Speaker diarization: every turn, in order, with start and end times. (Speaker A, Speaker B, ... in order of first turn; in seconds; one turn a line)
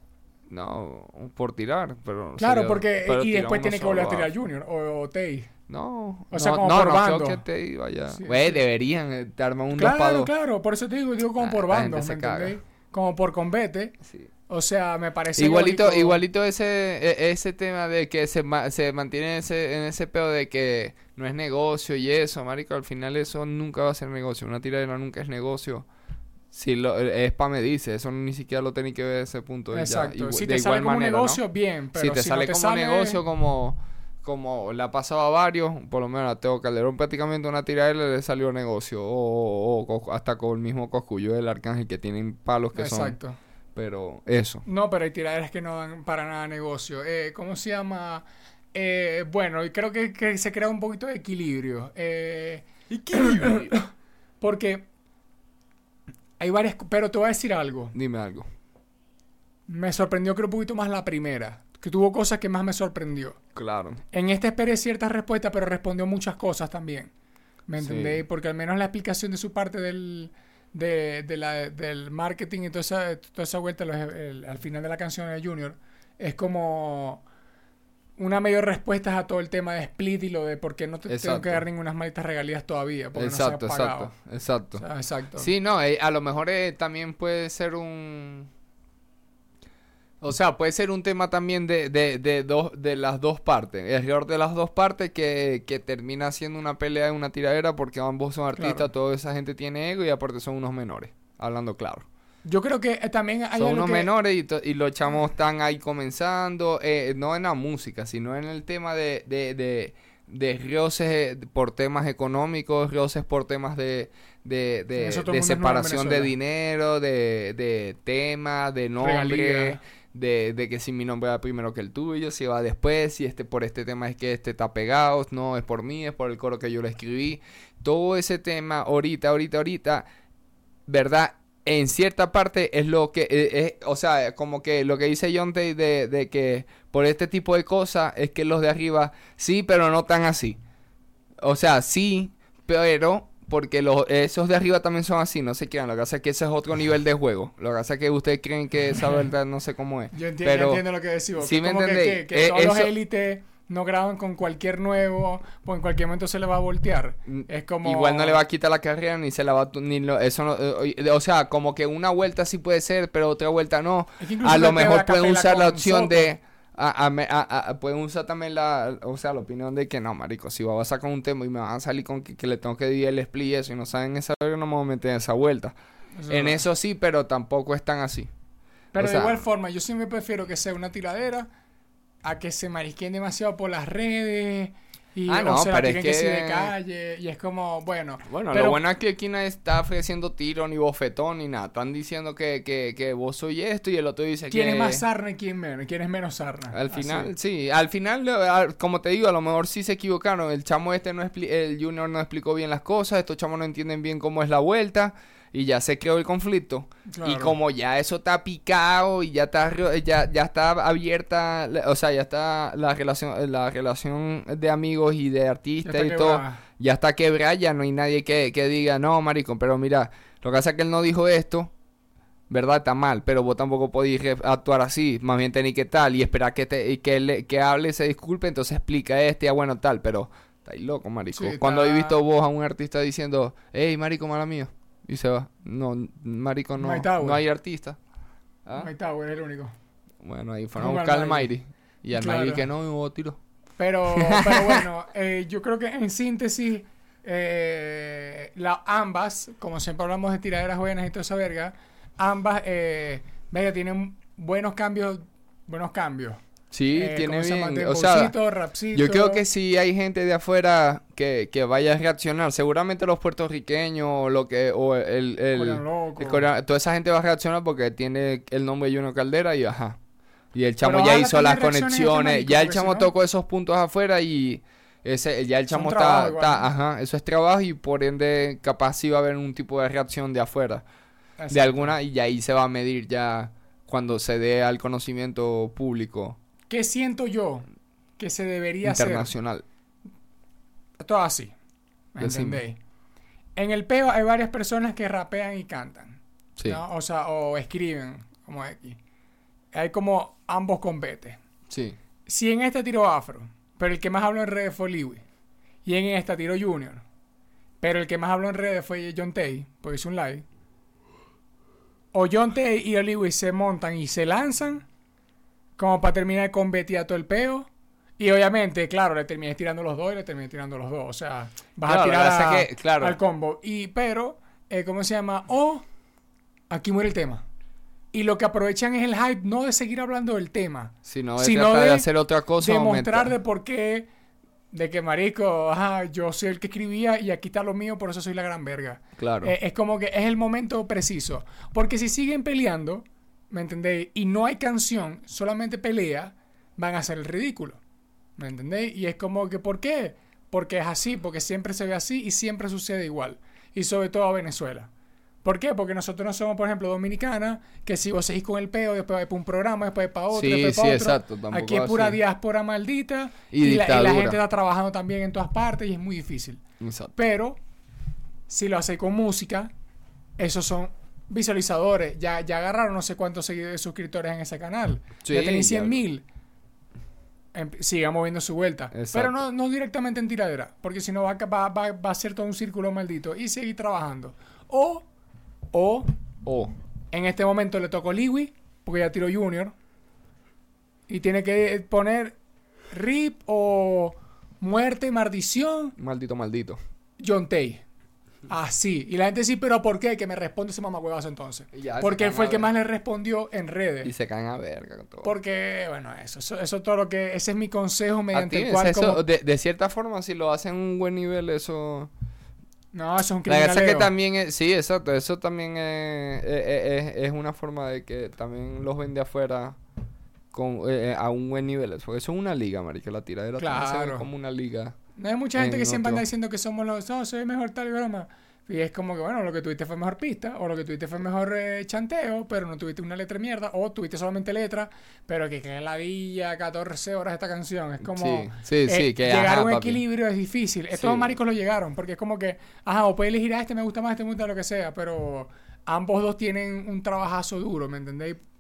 Speaker A: 0.5-4.3
Speaker B: 2.4-5.5
Speaker A: 5.7-10.3
Speaker B: 6.3-7.4
Speaker B: 8.1-8.6
Speaker B: 9.7-14.0
Speaker A: 11.4-12.6
Speaker A: 14.0-14.3
Speaker B: 14.5-16.2
Speaker A: 15.3-25.9
Speaker A: 26.5-31.4
Speaker B: 29.7-33.2
Speaker A: 31.9-43.2
Speaker B: 42.8-43.4
Speaker A: 43.8-44.6
Speaker B: 44.7-53.9
Speaker A: 52.9-53.8
Speaker B: 54.4-54.9
Speaker B: 56.4-58.0
Speaker A: 57.9-58.5
Speaker B: 59.7-63.4
Speaker A: 63.5-64.0
Speaker B: 64.1-67.1
Speaker B: 67.7-77.2
Speaker A: 67.8-68.2
Speaker B: 78.2-84.1
Speaker A: 81.1-81.6
Speaker A: 83.2-84.8
Speaker B: 84.8-85.5
Speaker A: 85.4-88.5
Speaker A: 90.2-102.1
Speaker B: 98.6-98.9
Speaker B: 102.5-104.1
Speaker A: 103.6-130.1
Speaker B: 115.0-116.3
Speaker B: 119.0-119.8
Speaker A: 130.9-140.6
Speaker A: 141.4-152.9
Speaker B: 150.1-158.4
Speaker A: 157.3-175.8
Speaker B: 164.2-166.3
Speaker B: 176.2-176.7
Speaker A: 176.3-178.3
Speaker B: 178.9-181.5
Speaker A: 178.9-179.4
Speaker B: 182.2-188.8
Speaker A: 185.3-186.7
Speaker A: 188.2-195.1
Speaker B: 194.5-197.3
Speaker A: 196.7-221.7
Speaker B: 207.1-207.6
Speaker B: 215.8-216.6
Speaker A: 222.5-238.0
Speaker B: 231.3-232.2
Speaker B: 236.8-237.4
Speaker A: 238.7-238.9
Speaker B: 238.8-239.7
Speaker A: 240.2-243.4
Speaker B: 240.8-241.5
Speaker B: 242.2-242.7
Speaker B: 243.8-256.4
Speaker A: 244.1-244.8
Speaker A: 256.7-258.4
Speaker B: 256.9-259.4
Speaker A: 258.9-270.0
Speaker B: 265.5-266.4
Speaker A: 270.5-280.9
Speaker B: 270.8-273.1
Speaker B: 275.7-276.7
Speaker B: 281.4-281.9
Speaker A: 281.5-286.4
Speaker B: 286.7-287.6
Speaker B: 288.2-289.3
Speaker A: 288.8-289.6
Speaker B: 291.0-291.5
Speaker B: 292.1-292.8
Speaker A: 292.2-292.6
Speaker B: 293.6-299.0
Speaker A: 296.6-296.8
Speaker B: 299.7-301.4
Speaker A: 301.7-302.0
Speaker B: 302.3-305.2
Speaker B: 305.9-307.0
Speaker B: 307.8-310.4
Speaker B: 312.1-314.9
Speaker B: 315.8-317.7
Speaker B: 318.2-325.9
Speaker A: 321.9-323.2
Speaker B: 326.7-327.4
Speaker B: 328.1-334.1
Speaker A: 331.1-333.3
Speaker B: 334.7-347.8
Speaker A: 339.2-339.6
Speaker B: 348.4-354.9
Speaker B: 355.4-366.6
Speaker A: 360.3-362.2
Speaker A: 363.5-364.4
Speaker A: 366.8-367.1
Speaker B: 367.2-367.6
Speaker B: 368.5-369.7
Speaker B: 370.4-376.2
Speaker A: 375.2-376.0
Speaker B: 377.5-385.1
Speaker A: 378.9-379.4
Speaker B: 385.7-386.1
Speaker A: 386.4-386.7
Speaker B: 387.1-389.8
Speaker B: 391.1-392.4
Speaker B: 392.9-395.9
Speaker A: 396.0-396.8
Speaker B: 397.2-397.8
Speaker B: 398.5-404.1
Speaker A: 401.7-402.7
Speaker A: 404.0-405.4
Speaker B: 405.2-409.2
Speaker A: 408.3-412.1
Speaker B: 412.9-414.1
Speaker A: 413.5-419.8
Speaker A: 420.5-425.0
Speaker B: 423.6-424.3
Speaker B: 425.2-448.4
Speaker A: 425.6-426.2
Speaker A: 438.0-440.0
Speaker A: 440.9-441.4